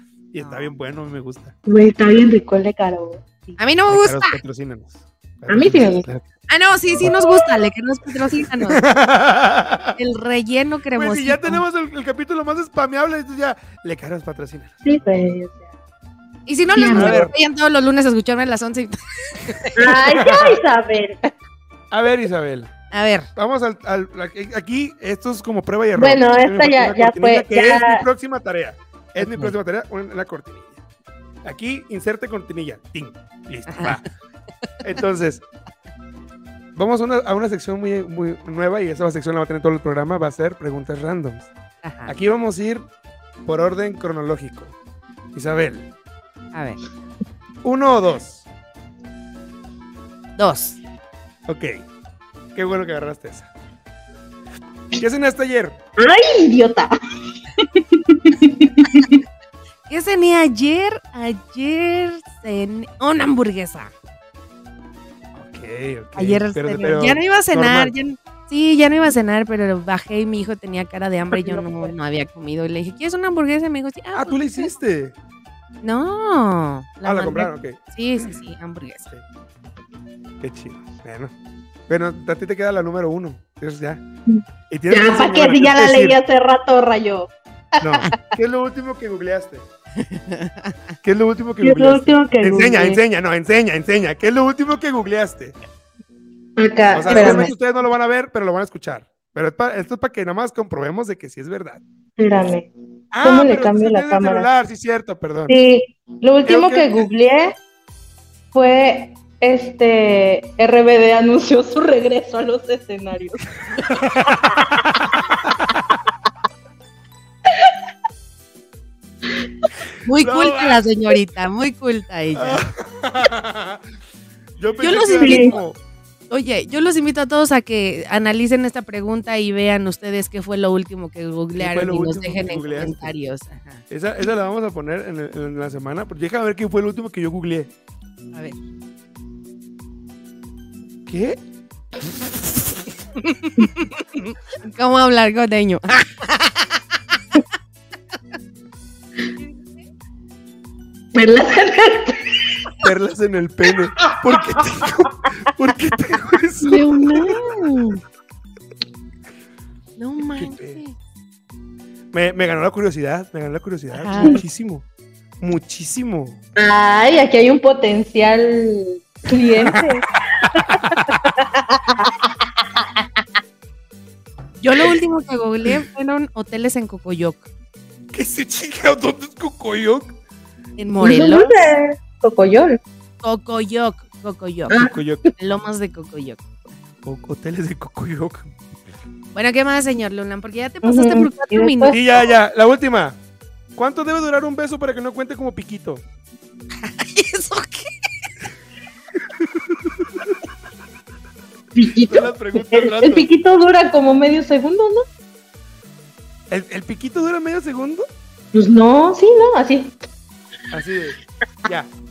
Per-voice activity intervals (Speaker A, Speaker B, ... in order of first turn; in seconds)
Speaker A: 0.3-1.5, 3.9-6.2, 7.0-7.3, 8.7-9.9, 10.9-14.8, 16.9-17.3, 19.9-20.6, 21.9-22.7, 23.3-30.8, 31.4-34.0, 34.8-35.4, 36.8-41.5, 42.0-42.8, 43.4-44.7, 45.3-45.9, 47.6-48.5, 51.5-51.8, 52.5-53.5, 55.0-55.8, 65.3-67.9, 74.1-75.1, 77.0-77.8, 80.4-81.3, 81.9-84.0, 84.7-86.2, 87.8-89.7, 91.0-95.6, 96.9-101.8, 103.1-105.5, 106.5-107.1, 113.9-116.0, 120.2-120.8, 122.3-123.8, 124.6-125.8, 131.6-133.1, 133.9-137.7, 141.1-141.4, 142.0-142.6, 152.8-157.3, 160.4-160.8, 162.1-164.8, 165.4-166.4, 169.6-169.9, 170.4-171.3, 178.1-180.2, 184.7-185.2, 187.0-188.5, 191.9-193.2, 193.7-196.0, 199.5-199.9, 201.9-203.3, 206.5-208.0, 210.7-211.9
Speaker B: 0.4-0.7, 3.6-4.4, 6.5-8.8, 9.9-11.6, 16.4-19.9, 22.9-23.3, 29.2-29.5, 33.7-34.0, 41.8-42.1, 46.5-46.8, 50.4-50.8, 59.9-63.9, 66.2-74.7, 75.8-79.1, 90.0-90.8, 97.0-97.5, 120.0-122.6, 124.8-125.6, 126.3-133.8, 143.2-146.8, 156.6-158.0, 160.0-160.9, 163.9-164.4, 174.6-177.4, 180.8-181.7, 183.2-184.8, 185.3-186.4, 189.3-192.2, 196.8-197.9
Speaker C: 1.6-3.5, 5.5-6.1, 14.8-15.7, 16.7-17.2, 19.8-21.3, 25.9-28.0, 56.0-56.9, 57.6-59.2, 71.4-71.9, 84.3-88.2, 91.6-93.0, 96.6-97.5, 102.2-102.7, 103.2-104.5, 105.5-107.5, 108.5-113.5, 125.2-125.5, 151.1-152.4, 166.6-172.8, 181.0-182.8, 184.7-185.3, 190.8-192.0, 201.7-205.0, 208.5-209.9